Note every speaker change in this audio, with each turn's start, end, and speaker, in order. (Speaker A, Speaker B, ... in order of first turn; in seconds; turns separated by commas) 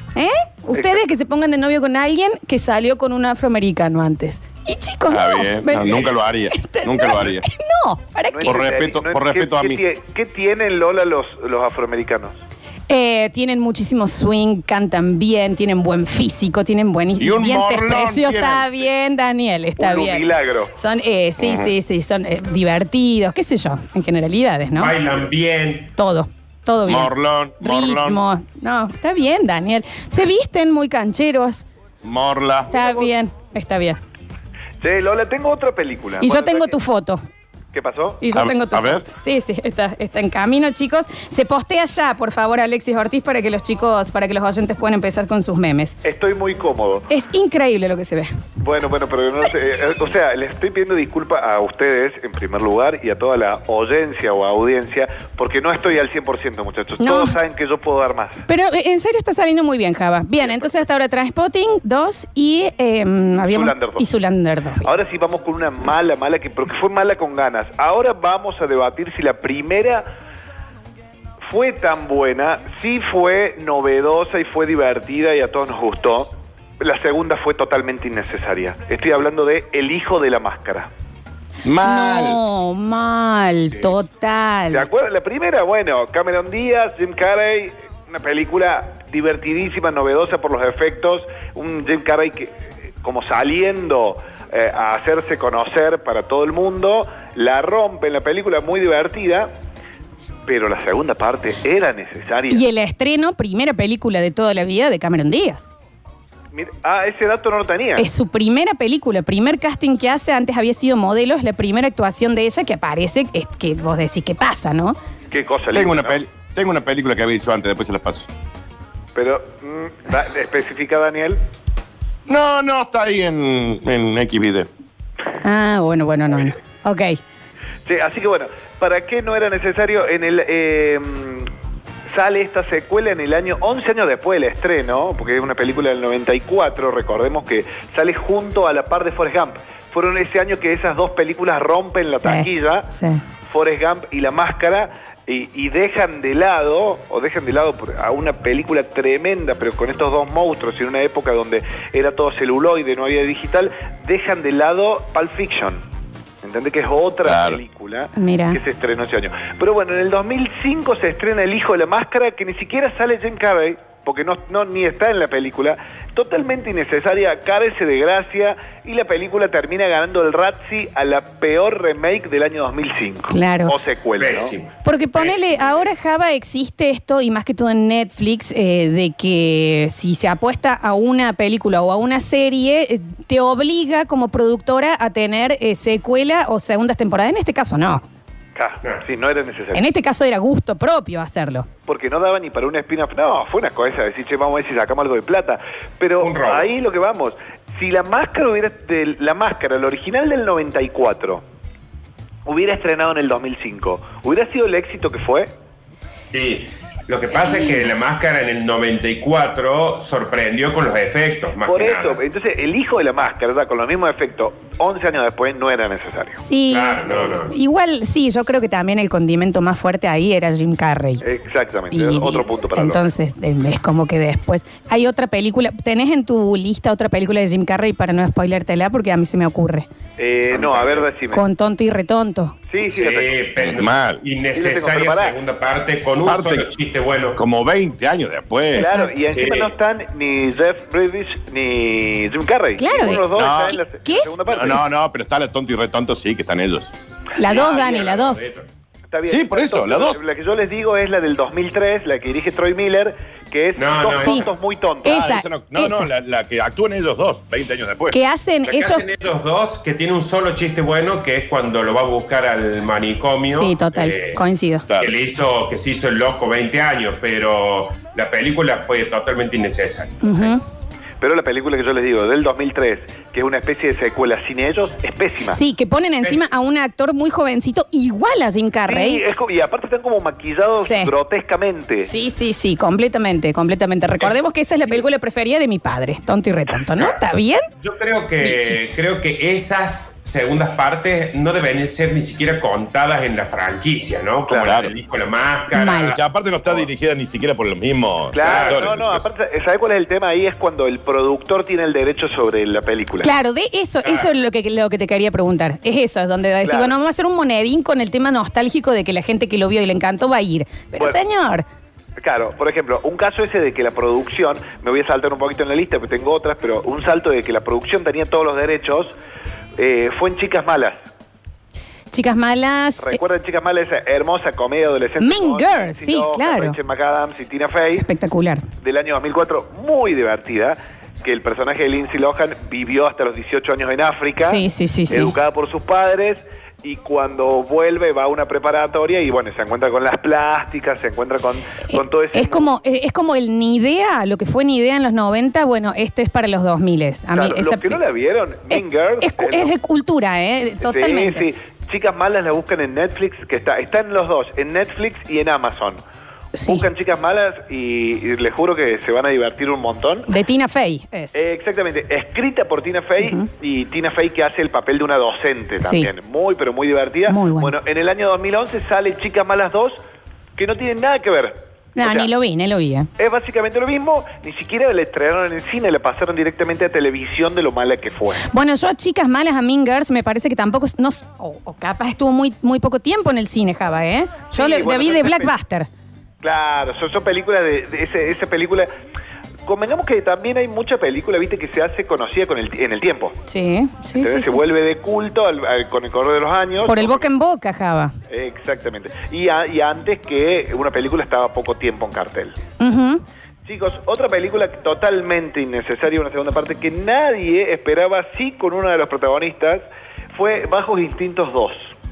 Speaker A: 0.1-8.7, Speaker B: 5.1-7.5, Speaker C: 5.8-6.1, Speaker D: 8.3-12.4, Speaker B: 8.5-9.8, Speaker A: 12.9-25.0, Speaker B: 17.2-18.8, Speaker D: 19.8-20.7, Speaker B: 21.4-21.7, Speaker C: 24.8-25.9, Speaker A: 26.0-31.7, Speaker B: 26.9-28.2, Speaker B: 32.0-32.7, Speaker A: 32.7-34.0, Speaker D: 34.8-36.8, Speaker A: 36.2-37.2, Speaker D: 37.7-38.2, Speaker A: 38.2-46.0, Speaker B: 38.3-39.0, Speaker D: 46.0-47.1, Speaker A: 47.1-48.3, Speaker D: 48.6-58.5, Speaker A: 57.0-57.4, Speaker A: 58.5-64.9, Speaker D: 60.4-60.7, Speaker D: 63.5-64.0, Speaker D: 64.8-70.1, Speaker D: 71.4-80.9, Speaker B: 81.7-82.4, Speaker A: 81.8-84.9, Speaker D: 84.7-99.5, Speaker D: 100.5-102.6, Speaker A: 102.5-105.7, Speaker D: 106.5-108.1, Speaker A: 108.0-115.0, Speaker D: 115.3-116.2, Speaker B: 115.7-118.3, Speaker D: 119.2-121.4, Speaker B: 122.3-124.7, Speaker A: 125.4-127.2, Speaker D: 127.9-131.5, Speaker D: 132.1-142.9, Speaker A: 142.2-143.2, Speaker D: 143.5-155.8, Speaker D: 156.4-174.6, Speaker B: 157.2-157.6, Speaker A: 158.2-158.6, Speaker A: 173.3-173.8, Speaker C: 174.2-175.3, Speaker A: 174.8-188.0, Speaker D: 188.6-189.8, Speaker A: 189.7-191.7, Speaker D: 191.9-201.4, Speaker C: 196.2-196.7, Speaker D: 202.5-205.5, Speaker C: 206.3-212.2, Speaker D: 211.7-216.4, Speaker A: 216.4-221.2, Speaker C: 216.7-217.5, Speaker D: 221.2-223.1, Speaker A: 221.9-229.9, Speaker D: 230.2-231.4, Speaker C: 230.7-231.0, Speaker A: 231.3-232.6, Speaker D: 232.7-233.4, Speaker C: 232.9-237.4, Speaker B: 233.6-234.2, Speaker D: 234.6-235.4, Speaker B: 236.3-236.7, Speaker B: 237.4-238.9, Speaker A: 238.7-239.2, Speaker D: 238.7-244.9, Speaker C: 239.3-239.7, Speaker A: 242.8-244.9, Speaker B: 243.3-243.8, Speaker B: 244.5-246.9, Speaker A: 247.4-248.5, Speaker D: 247.4-248.0, Speaker C: 247.5-248.7, Speaker D: 249.1-255.2, Speaker B: 249.3-250.2, Speaker C: 253.8-254.5, Speaker A: 254.2-254.4, Speaker A: 255.1-256.1, Speaker B: 255.1-258.2, Speaker A: 258.1-259.1, Speaker C: 258.7-264.4, Speaker A: 263.5-264.9, Speaker B: 264.9-265.1, Speaker C: 265.0-270.5, Speaker A: 270.2-270.6, Speaker D: 271.2-275.6, Speaker A: 275.5-279.2, Speaker D: 278.9-282.1, Speaker A: 280.8-281.1, Speaker A: 282.1-287.6, Speaker C: 287.8-296.8, Speaker A: 288.4-288.8, Speaker D: 294.5-294.8, Speaker B: 294.6-294.9, Speaker A: 295.7-296.2, Speaker B: 296.1-299.2, Speaker D: 298.3-303.3, Speaker C: 298.4-298.9, Speaker A: 303.2-311.6, Speaker C: 304.0-304.3, Speaker D: 306.6-306.9, Speaker D: 312.2-319.1, Speaker D: 319.8-321.0, Speaker A: 322.1-323.2, Speaker D: 323.0-328.1, Speaker A: 325.2-326.8, Speaker A: 328.0-328.7, Speaker D: 328.8-342.7, Speaker A: 334.4-335.3, Speaker A: 341.9-348.0, Speaker D: 347.4-349.7, Speaker A: 348.7-351.5, Speaker D: 350.8-356.0, Speaker A: 356.5-356.9, Speaker D: 356.6-360.3, Speaker A: 360.3-361.4, Speaker D: 361.3-370.0, Speaker A: 363.2-363.5, Speaker A: 365.8-366.1, Speaker A: 367.3-367.7, Speaker D: 370.6-372.3, Speaker A: 372.0-373.1, Speaker D: 373.2-378.5, Speaker A: 378.5-385.9, Speaker D: 384.5-385.5, Speaker D: 386.4-388.9, Speaker D: 389.7-393.4, Speaker A: 393.5-394.6, Speaker D: 394.2-397.3, Speaker A: 396.9-398.1, Speaker D: 398.3-402.6, Speaker A: 402.8-403.2, Speaker D: 403.7-411.9